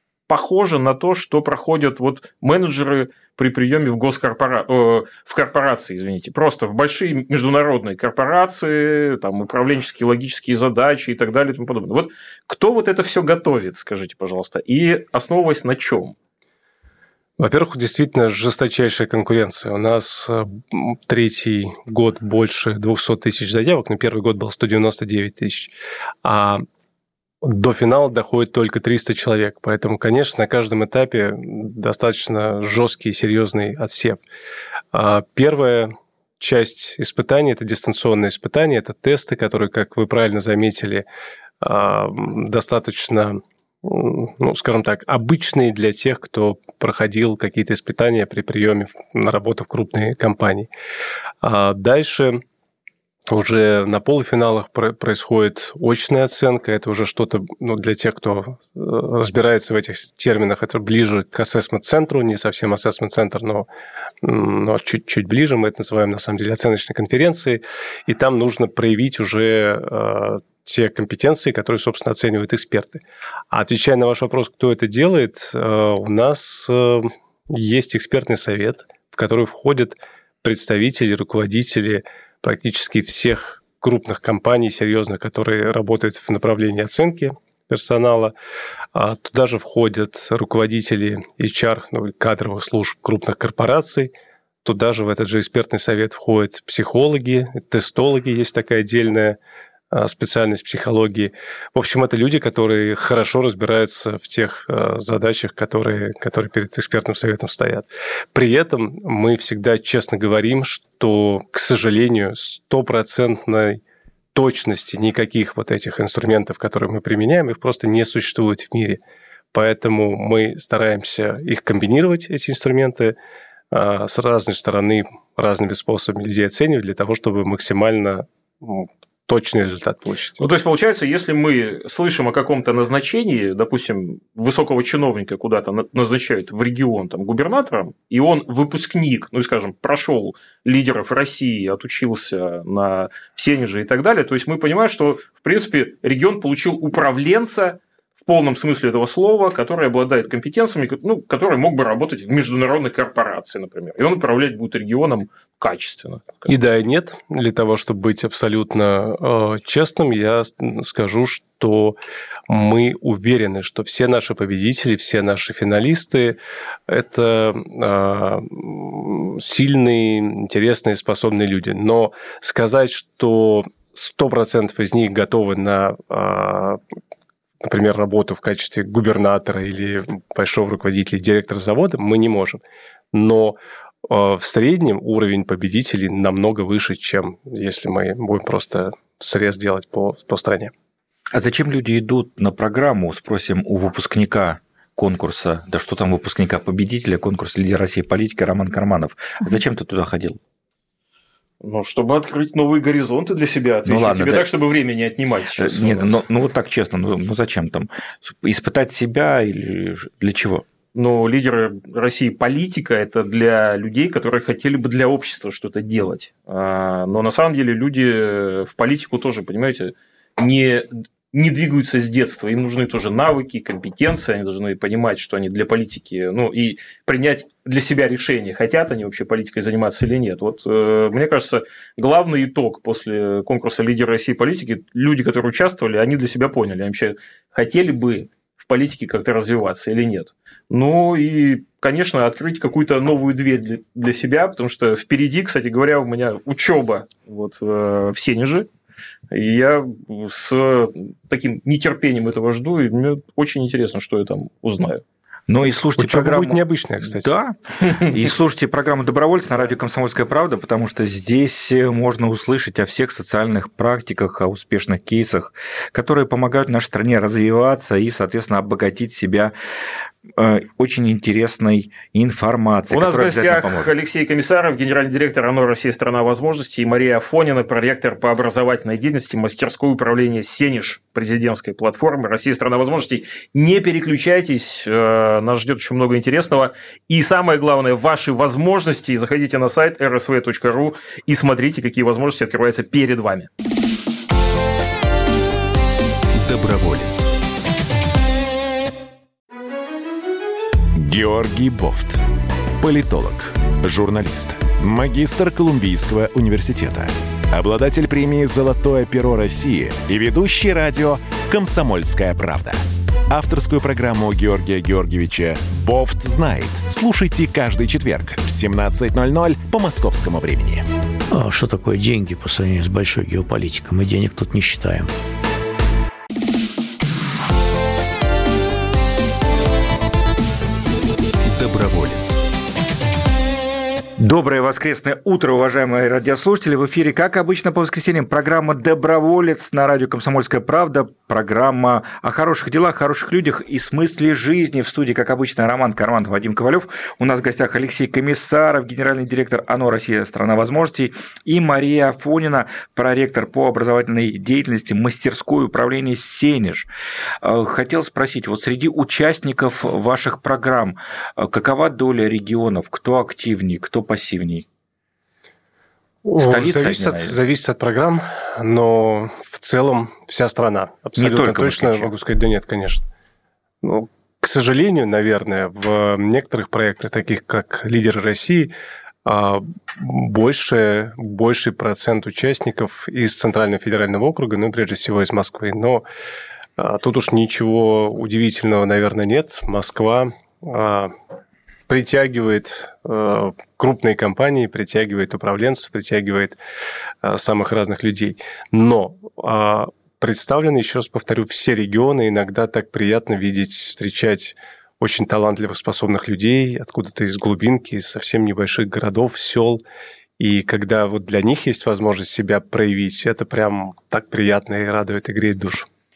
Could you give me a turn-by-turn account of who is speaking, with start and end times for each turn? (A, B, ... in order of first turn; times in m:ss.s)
0:00.3-0:16.2 A
0:17.4-0:25.7 B
0:26.2-0:26.6 B
0:27.4-0:34.2 B
0:34.9-0:41.0 B
0:41.6-0:50.7 B
0:51.4-0:52.4 B
0:53.3-1:03.7 B
1:04.2-1:28.3 B
1:28.9-1:34.1 B
1:34.6-1:39.4 B
1:39.9-1:53.8 B
1:54.3-1:59.0 B
1:59.5-2:03.2 B
2:03.7-2:10.4 B
2:10.4-2:36.5 A
2:36.4-2:56.8 B
2:57.6-3:02.6 B
3:03.1-3:10.7 B
3:11.3-3:20.4 C
3:21.6-3:26.2 A
3:23.8-3:24.5 C
3:25.6-3:30.6 C
3:30.9-4:08.7 A
4:09.3-4:15.0 A
4:15.5-4:29.5 C
4:16.0-4:17.3 B
4:30.4-4:33.9 C
4:32.9-4:53.5 A
4:56.3-4:57.3 D
5:00.9-5:02.2 D
5:02.8-5:20.8 D
5:21.3-5:25.1 E
5:31.4-5:32.4 D
5:34.2-5:56.9 C
5:57.4-6:04.6 C
6:06.2-6:13.0 B
6:06.4-6:07.4 C
6:11.2-6:12.1 C
6:13.8-6:18.7 B
6:19.2-6:26.0 B
6:26.8-6:31.1 B
6:31.9-6:36.6 B
6:37.2-6:49.8 B
6:50.4-6:55.9 B